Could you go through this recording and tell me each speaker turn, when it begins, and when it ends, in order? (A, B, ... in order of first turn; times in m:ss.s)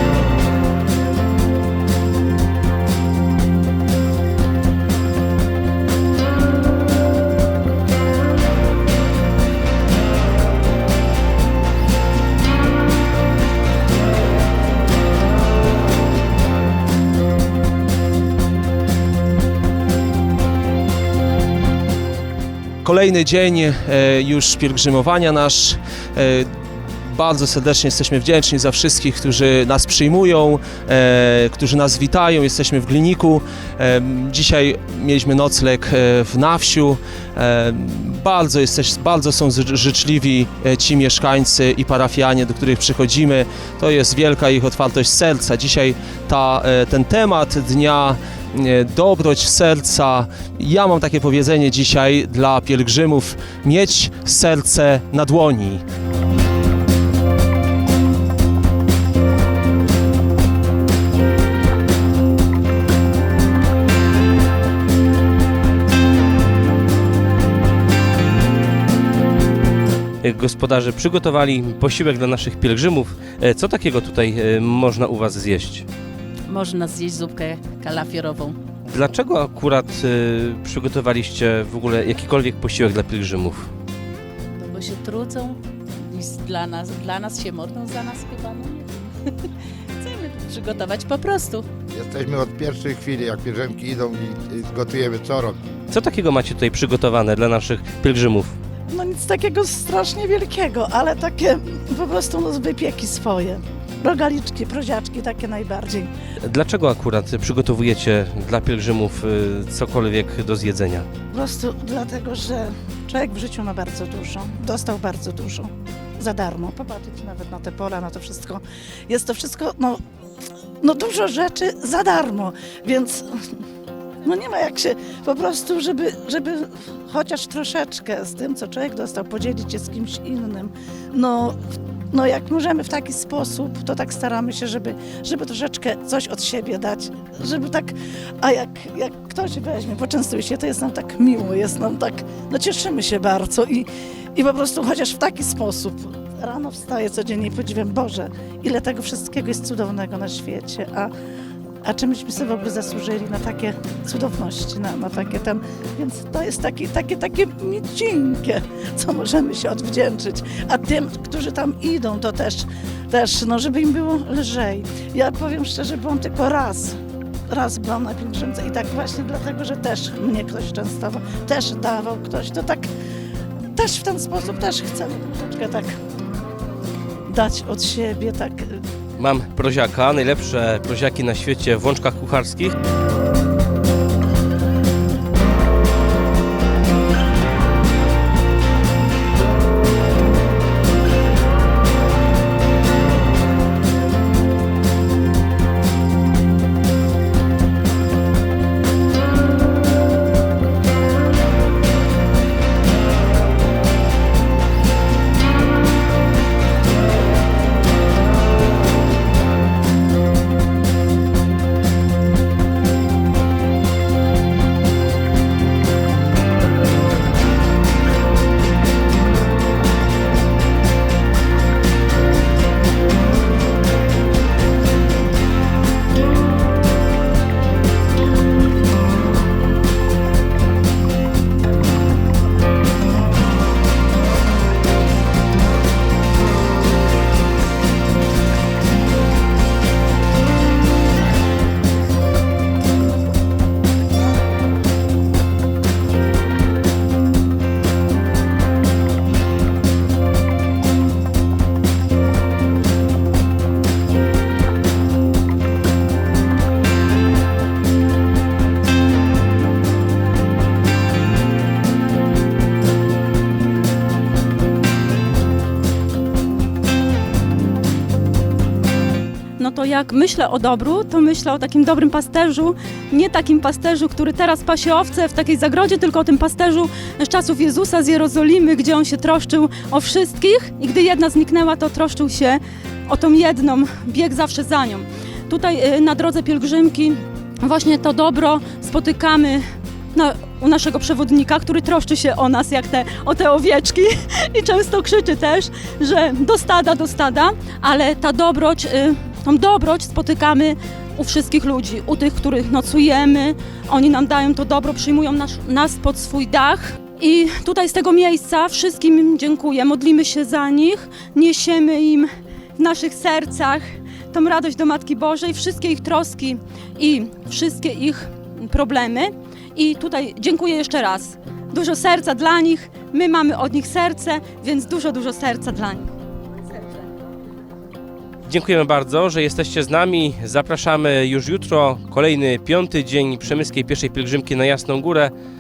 0:22.8-0:55.8 A
1:10.2-1:15.9 B
1:16.5-1:18.6 C
1:18.8-1:23.7 B
1:24.6-1:31.7 C
1:31.9-1:35.6 D
1:35.9-1:38.6 B
1:38.9-1:46.1 E
1:46.4-1:51.1 B
1:51.3-2:00.0 E
2:00.8-2:03.5 E
2:04.2-2:31.1 E
2:31.8-2:52.9 E
2:53.7-2:56.0 E
2:57.3-2:58.8 E
2:59.2-3:02.7 B
4:29.6-5:26.1 F
5:28.5-5:35.3 B